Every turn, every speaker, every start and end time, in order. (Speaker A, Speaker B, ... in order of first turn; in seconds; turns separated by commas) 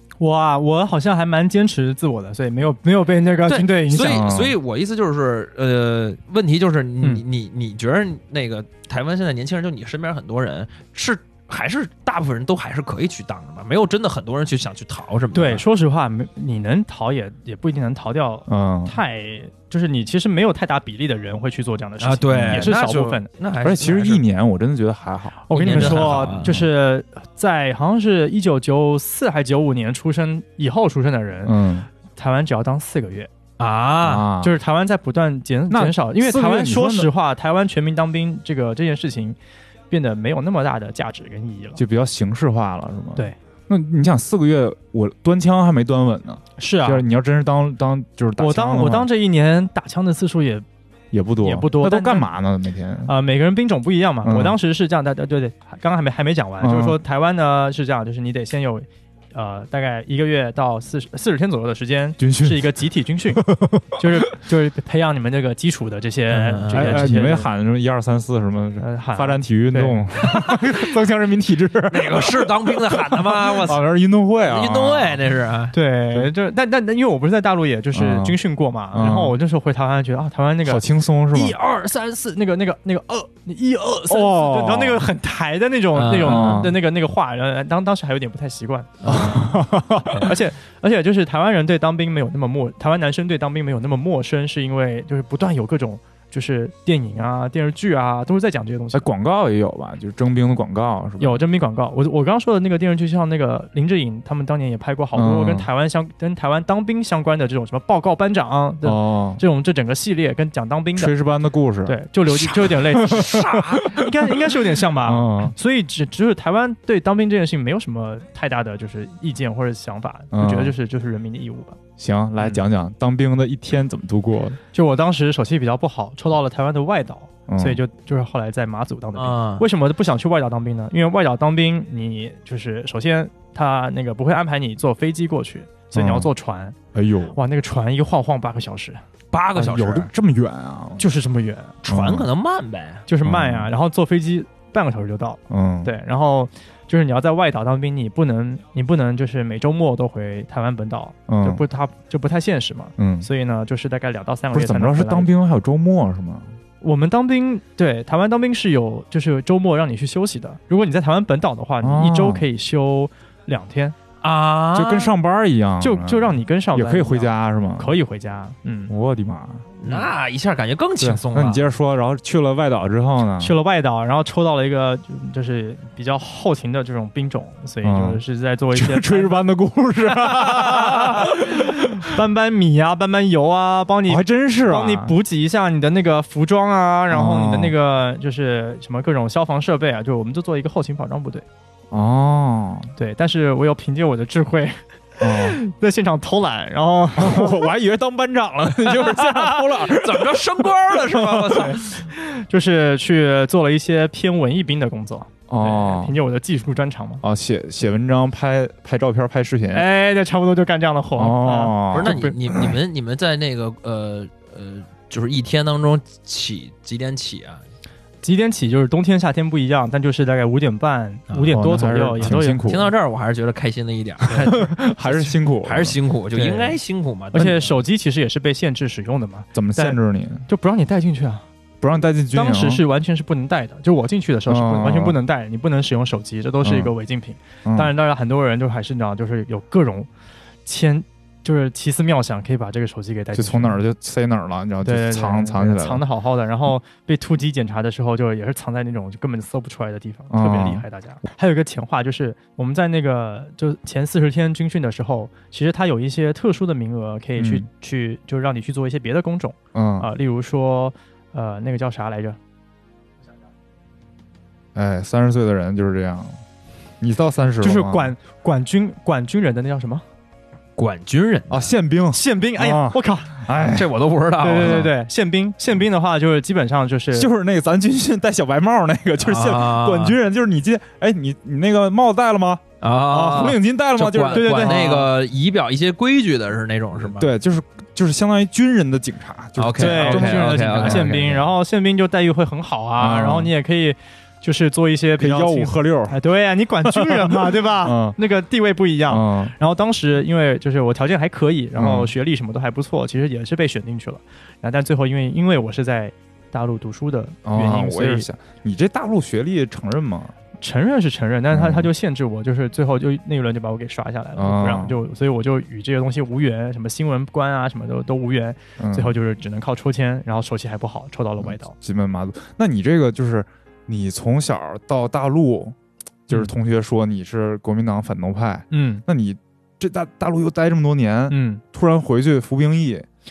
Speaker A: 0.2-4.3, Speaker B: 3.4-15.6, Speaker C: 4.0-4.6, Speaker A: 15.3-23.3, Speaker C: 18.5-19.0, Speaker B: 22.0-24.2, Speaker C: 22.3-22.7, Speaker C: 23.6-26.6, Speaker A: 25.5-33.3, Speaker B: 25.5-26.6, Speaker C: 31.4-31.9, Speaker B: 33.6-34.3, Speaker C: 34.0-34.5, Speaker A: 34.4-39.4, Speaker C: 35.7-37.1, Speaker A: 39.9-41.8, Speaker C: 41.8-49.1, Speaker A: 46.6-47.0, Speaker A: 48.4-50.6, Speaker C: 51.1-53.1, Speaker A: 51.4-52.3, Speaker A: 53.0-67.5, Speaker C: 54.2-54.6, Speaker C: 56.6-57.0, Speaker C: 62.2-62.8, Speaker C: 63.4-64.0, Speaker B: 66.3-67.1, Speaker C: 66.7-75.2, Speaker A: 68.8-70.0, Speaker B: 70.5-70.8, Speaker B: 71.9-73.8, Speaker B: 74.4-75.7, Speaker A: 75.7-89.5, Speaker C: 77.9-78.4, Speaker C: 78.9-79.3, Speaker C: 80.6-81.6, Speaker C: 84.1-85.1, Speaker B: 85.9-86.7, Speaker C: 86.2-86.8, Speaker C: 89.0-90.3, Speaker A: 90.0-99.1, Speaker C: 98.9-101.4, Speaker A: 101.2-111.1, Speaker C: 105.1-105.7, Speaker C: 108.8-109.4, Speaker C: 111.0-112.0, Speaker A: 111.8-121.8, Speaker B: 112.5-114.0, Speaker C: 112.6-114.1, Speaker C: 115.0-115.5, Speaker C: 120.3-120.7, Speaker C: 122.0-124.6, Speaker A: 124.7-136.8, Speaker C: 127.5-127.8, Speaker B: 129.1-129.6, Speaker C: 135.9-136.3, Speaker C: 136.9-137.4, Speaker A: 137.3-139.0, Speaker B: 139.3-140.1, Speaker C: 139.5-141.1, Speaker A: 141.0-141.8, Speaker B: 141.8-143.0, Speaker C: 141.9-142.3, Speaker A: 143.1-155.3, Speaker C: 143.2-143.7, Speaker C: 145.5-145.9, Speaker C: 151.3-151.6, Speaker C: 153.0-153.3, Speaker C: 154.5-156.5, Speaker A: 156.8-163.9, Speaker C: 161.8-162.4, Speaker B: 164.2-165.1, Speaker C: 164.7-167.9, Speaker A: 165.8-168.9, Speaker C: 168.9-169.7, Speaker B: 169.8-171.6, Speaker C: 171.0-173.5, Speaker A: 173.4-179.4, Speaker C: 177.8-178.2, Speaker C: 178.7-182.1, Speaker A: 180.9-191.4, Speaker C: 184.1-185.2, Speaker C: 187.1-187.7, Speaker C: 191.9-192.9, Speaker A: 193.0-197.6, Speaker C: 195.2-195.6, Speaker C: 197.2-201.4, Speaker B: 198.9-201.8, Speaker A: 201.5-207.2, Speaker C: 205.5-206.2, Speaker C: 207.2-209.8, Speaker A: 209.7-212.4, Speaker C: 211.2-212.8, Speaker B: 211.9-217.6, Speaker A: 218.2-222.7, Speaker B: 221.3-221.6, Speaker C: 221.5-222.9, Speaker B: 222.2-227.7, Speaker C: 224.3-226.0, Speaker A: 226.3-226.8, Speaker A: 227.3-231.4, Speaker C: 229.5-230.4, Speaker C: 231.8-232.8, Speaker A: 232.3-240.1, Speaker C: 234.5-235.2, Speaker C: 236.6-236.9, Speaker C: 237.6-237.9, Speaker A: 240.7-243.8, Speaker C: 243.3-246.0, Speaker A: 244.8-262.4, Speaker C: 250.3-250.8, Speaker C: 257.4-257.6, Speaker C: 259.7-260.1, Speaker C: 264.7-266.4, Speaker C: 267.0-268.1, Speaker A: 267.6-270.0, Speaker B: 270.8-271.7, Speaker C: 271.5-273.9, Speaker A: 272.1-273.4, Speaker B: 273.6-274.9, Speaker A: 274.4-277.3, Speaker C: 274.5-274.9, Speaker C: 277.1-285.1, Speaker B: 279.2-280.2, Speaker B: 282.8-287.3, Speaker A: 284.3-285.1, Speaker C: 287.1-291.3, Speaker B: 289.6-291.4, Speaker A: 289.8-308.3, Speaker C: 293.0-293.5, Speaker C: 295.2-296.2, Speaker C: 296.8-298.1, Speaker C: 299.1-299.5, Speaker C: 301.7-302.1, Speaker C: 307.4-310.3, Speaker A: 310.6-321.7, Speaker C: 311.5-311.9, Speaker C: 314.4-315.0, Speaker C: 318.8-319.1, Speaker C: 321.4-325.8, Speaker C: 326.3-333.1, Speaker A: 328.7-329.0, Speaker A: 331.3-331.6